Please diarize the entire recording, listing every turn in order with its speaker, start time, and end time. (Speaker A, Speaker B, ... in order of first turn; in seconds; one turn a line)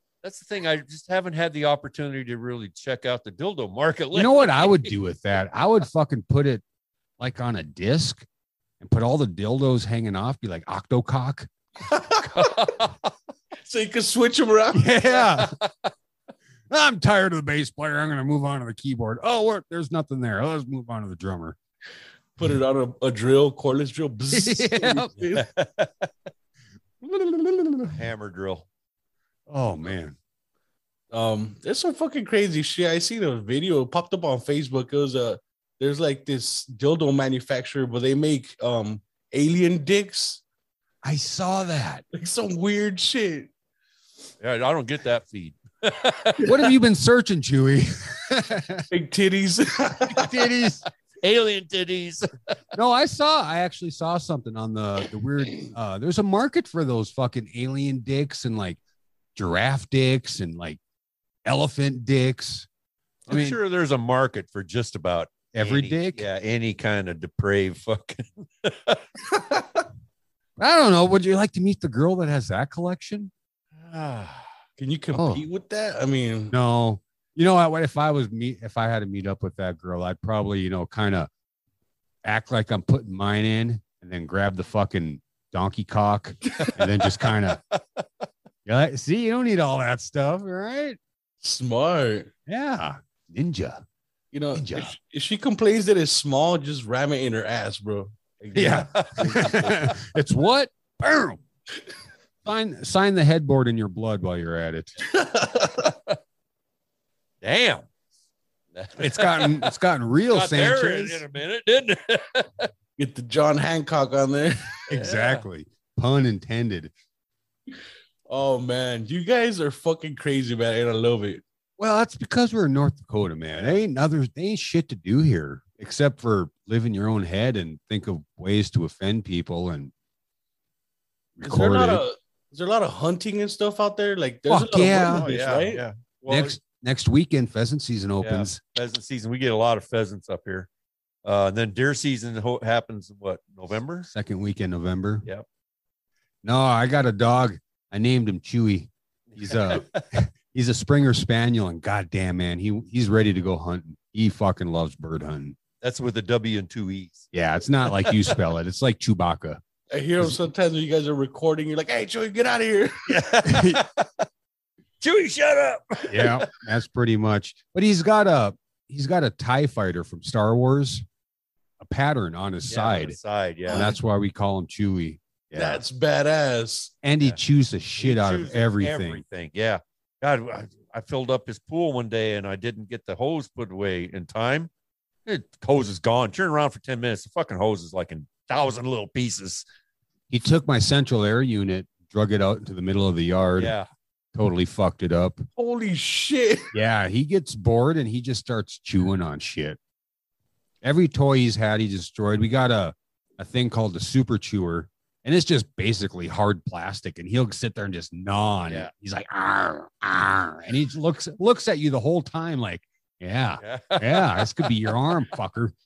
Speaker A: 0.2-4.9
Speaker B: 4.1-6.6
Speaker B: 7.2-8.2
Speaker B: 8.8-11.5
Speaker C: 11.9-12.6
Speaker A: 12.3-13.0
Speaker C: 13.6-14.9
Speaker B: 14.7-15.5
Speaker B: 16.7-21.6
Speaker C: 22.4-25.4
Speaker B: 24.3-25.1
Speaker A: 25.3-26.1
Speaker B: 27.0-27.9
Speaker A: 27.9-28.6
Speaker B: 29.5-30.2
Speaker C: 31.1-40.4
Speaker B: 41.0-42.0
Speaker C: 42.1-43.5
Speaker A: 44.4-46.5
Speaker B: 46.4-48.9
Speaker C: 48.9-50.3
Speaker B: 50.1-50.8
Speaker A: 51.2-52.3
Speaker B: 52.7-58.8
Speaker B: 59.4-60.8
Speaker B: 61.4-62.7
Speaker A: 63.3-69.0
Speaker B: 63.3-63.6
Speaker B: 65.5-66.2
Speaker B: 70.6-73.3
Speaker A: 73.8-74.5
Speaker C: 74.8-76.5
Speaker B: 75.1-75.4
Speaker B: 76.5-81.3
Speaker B: 82.2-87.6
Speaker A: 87.7-88.0
Speaker B: 88.7-91.0
Speaker C: 91.4-92.3
Speaker B: 92.5-93.8
Speaker C: 94.3-99.9
Speaker B: 94.5-94.9
Speaker B: 98.5-101.4
Speaker A: 98.6-99.6
Speaker B: 102.4-105.0
Speaker C: 105.1-105.7
Speaker A: 107.4-107.8
Speaker A: 108.7-109.7
Speaker B: 109.0-111.2
Speaker A: 110.3-112.7
Speaker C: 113.0-114.9
Speaker B: 114.9-116.9
Speaker A: 114.9-115.4
Speaker C: 118.3-121.4
Speaker B: 121.8-129.9
Speaker B: 131.3-132.0
Speaker C: 131.4-135.8
Speaker B: 134.5-135.2
Speaker A: 135.0-136.6
Speaker B: 136.3-138.6
Speaker A: 138.2-140.7
Speaker A: 141.2-144.1
Speaker B: 144.1-145.2
Speaker B: 146.4-155.6
Speaker A: 149.3-150.0
Speaker A: 155.8-157.3
Speaker B: 157.3-159.6
Speaker A: 157.8-158.4
Speaker C: 159.9-163.1
Speaker A: 163.1-164.1
Speaker B: 163.4-163.8
Speaker A: 165.0-166.5
Speaker B: 166.1-171.0
Speaker B: 171.8-173.2
Speaker A: 172.7-173.9
Speaker B: 173.7-175.8
Speaker C: 175.5-176.9
Speaker B: 177.0-179.2
Speaker A: 178.0-184.7
Speaker A: 185.2-189.6
Speaker B: 190.3-193.7
Speaker A: 193.6-193.9
Speaker B: 194.3-195.4
Speaker C: 195.6-196.7
Speaker B: 196.7-199.8
Speaker B: 200.8-215.7
Speaker A: 213.6-214.9